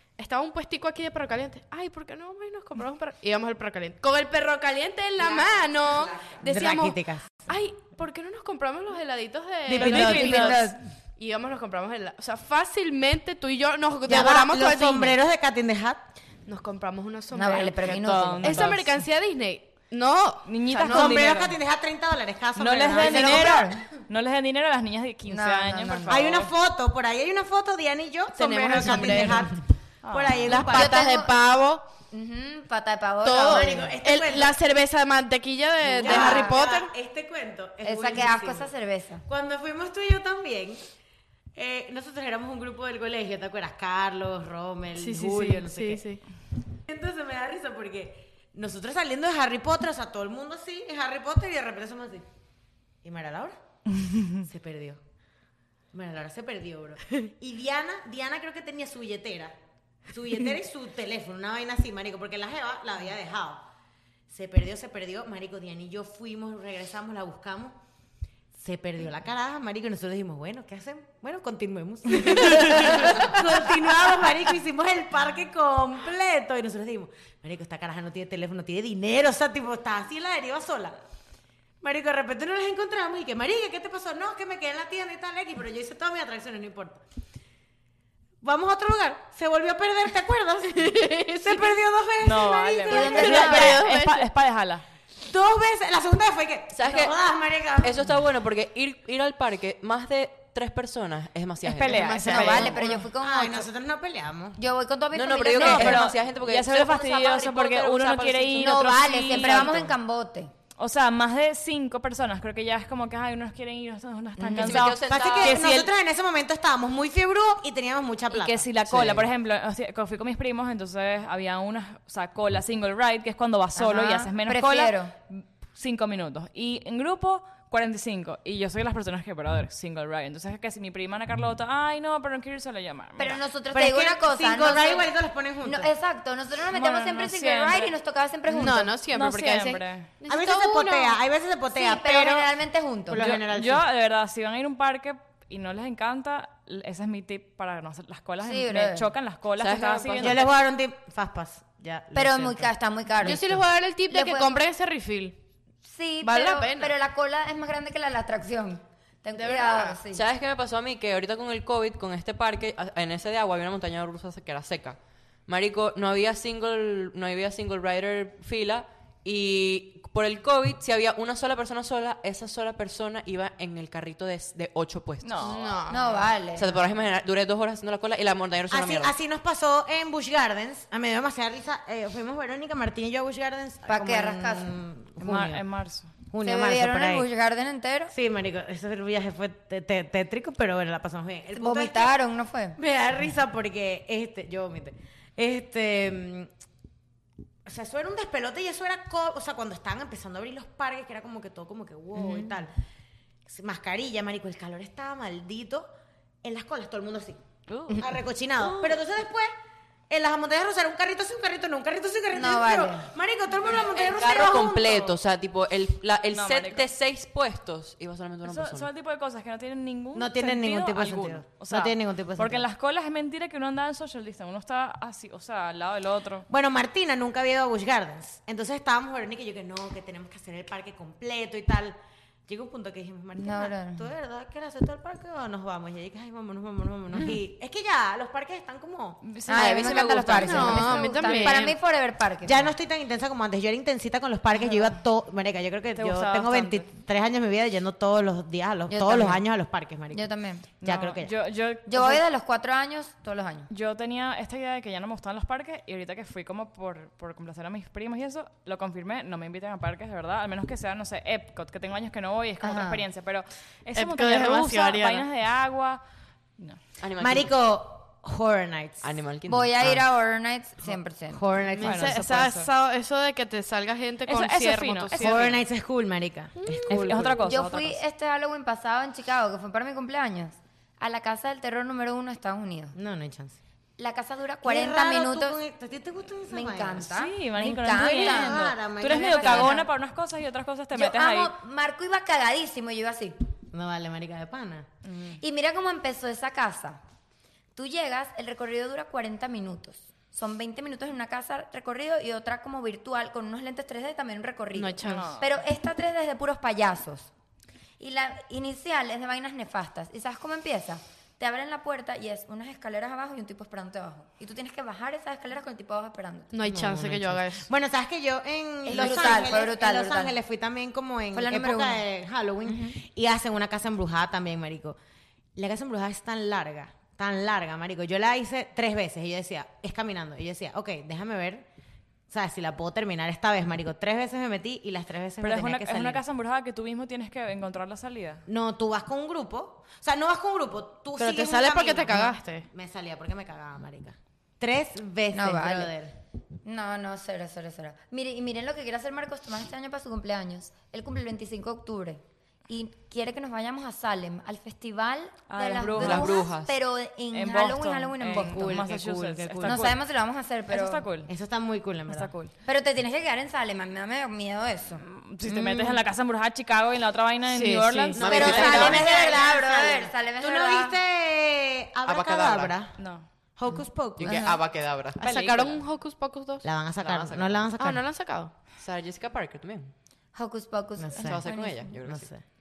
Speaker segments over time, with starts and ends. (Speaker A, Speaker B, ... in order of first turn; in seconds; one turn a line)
Speaker A: 0.2-15.2
Speaker B: 5.3-6.4
Speaker C: 6.4-7.4
Speaker C: 9.7-10.7
Speaker D: 9.7-10.7
Speaker E: 9.8-10.8
Speaker C: 14.1-16.0
Speaker A: 16.4-21.4
Speaker E: 17.3-18.8
Speaker D: 17.8-19.0
Speaker D: 20.4-21.6
Speaker C: 20.9-23.8
Speaker D: 22.6-26.5
Speaker E: 22.9-23.8
Speaker E: 25.3-26.3
Speaker C: 26.1-31.1
Speaker A: 28.3-29.5
Speaker D: 30.0-30.5
Speaker A: 30.4-31.8
Speaker E: 30.7-31.3
Speaker E: 32.1-33.9
Speaker A: 33.2-36.9
Speaker C: 33.5-34.5
Speaker C: 35.9-38.7
Speaker E: 36.0-36.6
Speaker E: 37.8-39.2
Speaker C: 39.3-40.8
Speaker C: 41.5-46.0
Speaker A: 45.0-46.2
Speaker C: 46.9-52.2
Speaker C: 53.0-53.6
Speaker C: 54.4-55.0
Speaker C: 55.9-59.5
Speaker C: 60.1-63.6
Speaker C: 64.3-67.8
Speaker C: 68.5-81.0
Speaker C: 81.8-87.0
Speaker C: 88.4-93.7
Speaker A: 90.7-91.8
Speaker D: 92.2-94.8
Speaker E: 92.9-93.8
Speaker A: 93.0-94.3
Speaker C: 95.2-98.0
Speaker B: 96.7-97.1
Speaker B: 97.8-102.1
Speaker D: 101.6-103.0
Speaker A: 101.9-103.0
Speaker E: 102.2-103.7
Speaker C: 103.2-104.6
Speaker E: 104.6-106.0
Speaker B: 105.1-109.8
Speaker D: 105.5-109.8
Speaker C: 105.6-105.9
Speaker E: 108.6-110.5
Speaker D: 110.8-115.9
Speaker E: 114.4-114.9
Speaker B: 114.6-115.7
Speaker C: 115.1-119.2
Speaker D: 118.3-133.4
Speaker E: 123.8-125.1
Speaker E: 133.2-135.1
Speaker C: 133.7-135.9
Speaker E: 135.6-138.9
Speaker D: 136.7-137.9
Speaker A: 138.5-141.2
Speaker D: 139.1-140.1
Speaker C: 140.3-142.5
Speaker E: 141.7-143.3
Speaker C: 143.1-143.8
Speaker D: 143.2-150.4
Speaker E: 148.4-149.1
Speaker B: 149.6-150.4
Speaker C: 150.2-152.7
Speaker E: 152.1-154.6
Speaker A: 153.2-155.3
Speaker E: 155.8-160.2
Speaker A: 156.2-156.9
Speaker A: 159.3-160.0
Speaker B: 160.1-175.6
Speaker D: 175.2-175.8
Speaker A: 175.4-176.3
Speaker E: 175.9-176.8
Speaker B: 176.5-179.1
Speaker C: 178.7-185.6
Speaker E: 183.8-184.7
Speaker D: 185.2-186.1
Speaker C: 186.3-187.2
Speaker E: 186.4-188.1
Speaker C: 188.1-192.1
Speaker E: 191.5-192.8
Speaker C: 192.8-196.5
Speaker C: 197.7-202.7
Speaker E: 202.1-202.5
Speaker C: 203.5-205.9
Speaker C: 206.4-207.4
Speaker D: 207.7-208.0
Speaker C: 208.0-209.5
Speaker D: 208.6-208.9
Speaker C: 210.1-215.1
Speaker E: 212.3-213.1
Speaker B: 213.9-218.9
Speaker D: 214.0-214.5
Speaker D: 216.3-216.9
Speaker D: 218.4-226.4
Speaker C: 220.1-222.6
Speaker C: 226.5-231.9
Speaker C: 232.5-239.2
Speaker E: 233.4-234.1
Speaker D: 239.2-241.4
Speaker E: 239.5-242.7
Speaker B: 239.5-241.0
Speaker A: 240.3-241.8
Speaker C: 242.4-250.2
Speaker D: 244.6-244.9
Speaker D: 245.9-246.9
Speaker E: 248.9-249.4
Speaker E: 250.1-250.7
Speaker C: 250.8-251.3
Speaker D: 250.8-252.2
Speaker E: 251.8-253.7
Speaker D: 253.7-266.0
Speaker E: 262.6-263.0
Speaker A: 263.9-265.2
Speaker B: 267.0-267.5
Speaker C: 267.2-269.0
Speaker B: 269.0-270.1
Speaker E: 269.5-271.4
Speaker C: 271.3-272.2
Speaker A: 271.7-275.6
Speaker D: 271.8-272.7
Speaker D: 274.2-275.6
Speaker C: 275.2-277.4
Speaker A: 276.6-277.1
Speaker D: 276.9-278.0
Speaker E: 277.4-282.9
Speaker C: 282.9-283.6
Speaker E: 284.0-285.6
Speaker C: 284.6-287.1
Speaker E: 286.4-289.9
Speaker D: 287.0-291.5
Speaker C: 288.0-289.8
Speaker E: 290.9-293.4
Speaker C: 293.7-294.9
Speaker D: 295.0-295.4
Speaker E: 295.4-297.0
Speaker E: 297.7-307.3
Speaker A: 304.7-305.4
Speaker D: 305.1-305.5
Speaker E: 308.0-316.7
Speaker A: 316.5-317.7
Speaker C: 316.6-324.9
Speaker E: 318.8-320.4
Speaker E: 321.3-322.0
Speaker E: 322.7-322.9
Speaker C: 325.6-331.6
Speaker C: 332.3-336.2
Speaker D: 335.4-338.4
Speaker C: 338.5-346.1
Speaker A: 341.2-342.7
Speaker E: 345.3-345.9
Speaker E: 346.6-358.9
Speaker D: 355.5-356.4
Speaker B: 355.9-356.7
Speaker D: 357.3-360.0
Speaker A: 358.3-359.2
Speaker B: 358.8-359.9
Speaker E: 359.6-361.0
Speaker D: 360.7-361.3
Speaker C: 361.3-362.3
Speaker D: 362.1-362.5
Speaker E: 362.6-365.0
Speaker D: 365.0-369.0
Speaker A: 365.5-366.0
Speaker A: 367.5-368.8
Speaker C: 368.2-372.9
Speaker B: 368.2-369.1
Speaker E: 368.2-370.9
Speaker B: 372.1-372.8
Speaker D: 373.0-373.2
Speaker C: 373.6-374.6
Speaker B: 374.2-375.2
Speaker E: 374.3-374.6
Speaker A: 375.2-376.6
Speaker D: 375.2-375.8
Speaker C: 376.6-378.1
Speaker B: 377.0-377.7
Speaker A: 377.8-378.5
Speaker B: 378.8-379.9
Speaker E: 380.3-381.9
Speaker C: 381.0-381.4
Speaker B: 381.2-382.3
Speaker C: 382.0-382.4